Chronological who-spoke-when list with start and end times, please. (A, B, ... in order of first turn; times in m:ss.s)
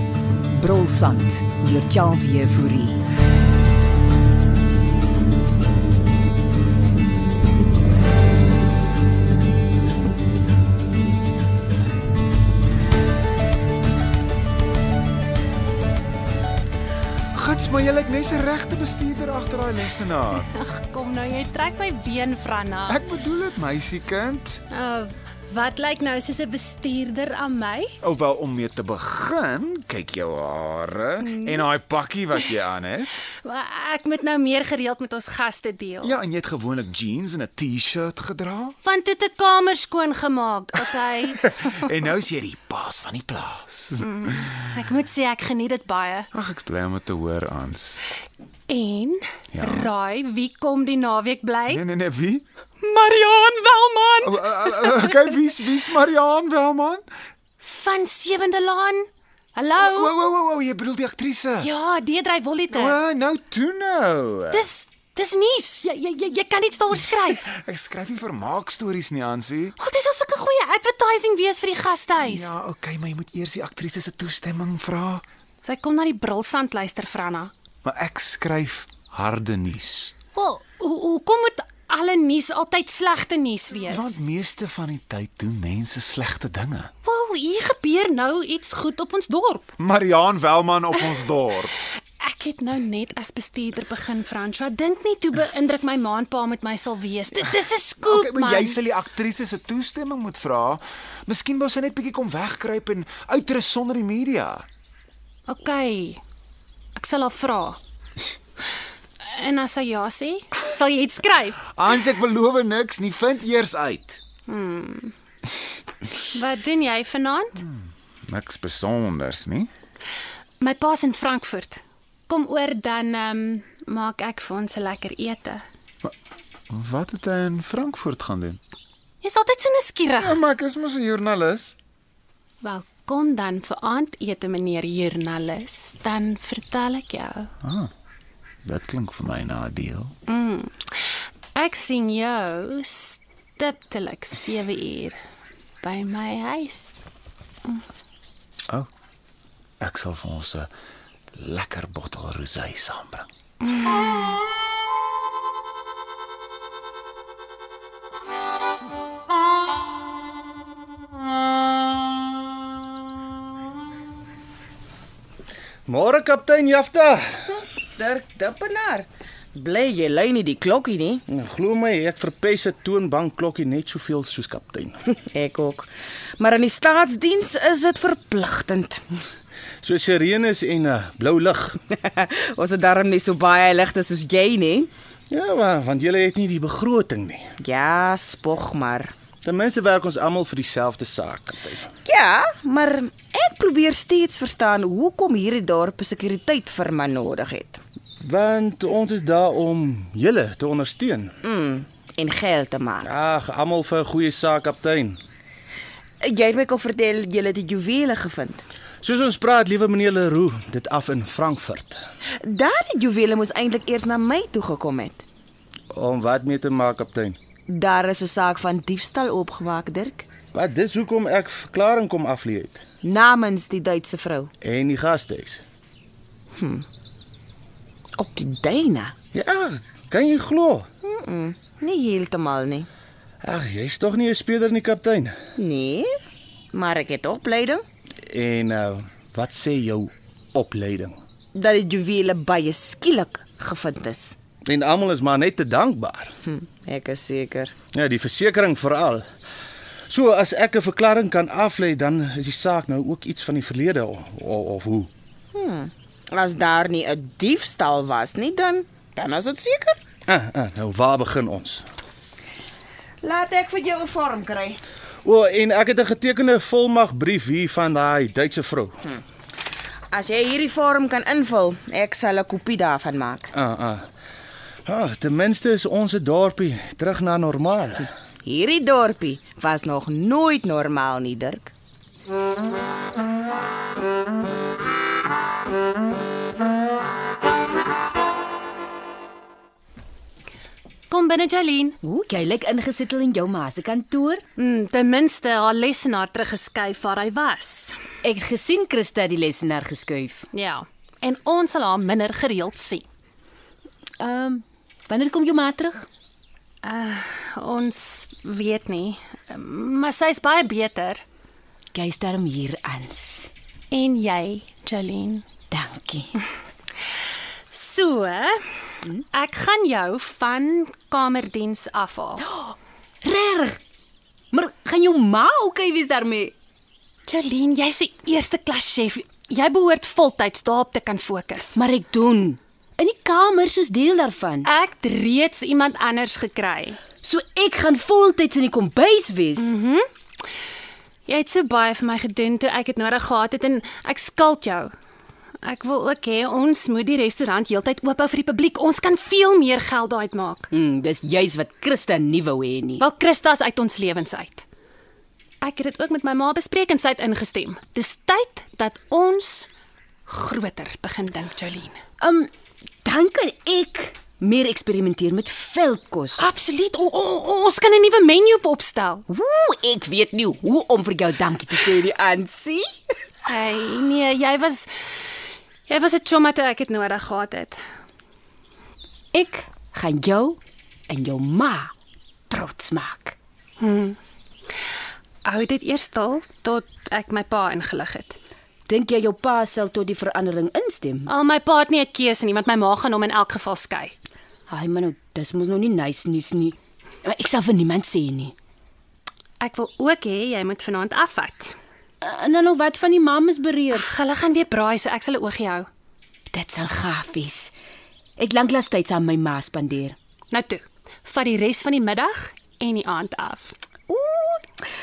0:00.6-0:03.0 A
0:17.3-0:20.5 B
0:20.4-0:23.0 C
0:22.9-0:24.6 B
0:24.7-0:28.0 C
0:28.0-0:33.3 B
0:31.2-0:31.7 C
0:33.4-0:36.2 C
0:36.0-0:38.8 B
0:38.8-0:41.5 C
0:41.4-0:44.8 B
0:44.0-0:46.3 C
0:46.3-0:48.0 B
0:48.7-0:51.8 C
0:49.5-0:49.9 B
0:51.7-0:52.4 B
0:52.8-0:55.3 C
0:54.2-0:57.0 B
0:57.6-1:00.2 C
0:59.8-1:01.7 B
1:01.6-1:03.0 C
1:02.8-1:04.7 B
1:04.5-1:07.5 C
1:07.3-1:09.8 B
1:09.8-1:12.6 C
1:12.2-1:15.2 B
1:15.6-1:17.5 C
1:17.8-1:20.1 B
1:20.3-1:24.2 C
1:23.8-1:26.9 B
1:27.0-1:29.7 C
1:29.8-1:31.8 B
1:32.2-1:38.8 C
1:38.0-1:44.7 B
1:45.5-1:46.2 C
1:47.0-1:47.8 C
1:49.2-1:51.6 C
1:51.6-1:54.2 B
1:54.5-1:55.1 C
1:56.3-1:57.6 C
1:57.6-1:59.7 B
2:00.6-2:05.6 C
2:06.7-2:08.6 B
2:09.2-2:10.4 C
2:10.2-2:11.8 B
2:12.6-2:17.5 C
2:17.6-2:17.9 B
2:18.6-2:20.1 B
2:20.3-2:20.8 C
2:21.5-2:25.2 C
2:25.8-2:27.0 C
2:29.8-2:30.7 B
2:31.4-2:33.3 B
2:33.7-2:34.1 C
2:45.9-2:47.4 D
2:47.6-2:51.2 E
2:51.3-2:55.0 D
2:55.3-2:59.0 E
2:59.8-3:01.8 D
3:01.9-3:04.9 E
3:05.3-3:07.5 D
3:07.6-3:09.1 E
3:09.4-3:11.9 D
3:12.1-3:17.8 E
3:18.2-3:21.3 D
3:21.4-3:23.1 E
3:23.0-3:25.2 D
3:26.2-3:28.6 E
3:29.0-3:32.0 D
3:32.4-3:35.2 E
3:35.9-3:37.4 D
3:37.7-3:40.3 E
3:40.5-3:42.8 D
3:43.0-3:44.5 E
3:44.6-3:45.6 D
3:46.5-3:46.8 E
3:48.2-3:49.1 E
3:49.3-3:50.9 D
3:51.0-3:52.9 E
3:53.4-3:55.4 D
3:55.6-3:56.1 E
3:56.7-3:57.8 E
3:58.2-4:01.2 D
4:01.5-4:04.4 E
4:04.7-4:06.3 D
4:06.4-4:07.7 E
4:07.9-4:09.3 D
4:10.1-4:15.1 D
4:15.5-4:20.0 E
4:20.3-4:21.8 D
4:23.2-4:24.8 E
4:25.2-4:29.0 D
4:30.1-4:33.5 E
4:33.5-4:34.1 D
4:34.9-4:38.1 D
4:38.4-4:41.7 E
4:51.1-4:52.0 C
4:52.0-4:54.4 F
4:54.6-4:58.0 C
4:58.2-5:00.5 F
5:00.5-5:03.0 C
5:04.2-5:06.1 F
5:06.8-5:11.2 C
5:11.9-5:13.5 F
5:13.9-5:15.5 C
5:15.7-5:16.4 F
5:17.7-5:18.6 C
5:19.3-5:22.4 C
5:22.4-5:23.8 F
5:24.5-5:26.5 F
5:27.2-5:31.8 C
5:31.8-5:34.7 F
5:34.6-5:37.0 C
5:37.2-5:39.7 F
5:39.6-5:40.0 C
5:41.2-5:44.9 C
5:45.6-5:50.7 C
5:50.7-5:53.0 F
5:53.0-5:54.6 C
5:55.6-5:59.7 C
6:00.3-6:02.0 C
6:02.2-6:02.5 F
6:03.0-6:06.5 F
6:06.4-6:09.3 C
6:09.3-6:12.9 F
6:13.5-6:14.9 C
6:15.9-6:17.8 C
6:19.3-6:21.9 F
6:22.5-6:23.4 F
6:23.8-6:24.2 C
6:25.4-6:28.4 C
6:28.9-6:31.3 F
6:31.2-6:34.1 C
6:34.7-6:38.6 F
6:39.6-6:41.8 C
6:42.2-6:44.1 F
6:43.9-6:45.9 C
6:46.5-6:47.7 F
6:48.4-6:50.2 F
6:50.5-6:53.7 C
6:54.1-6:54.6 F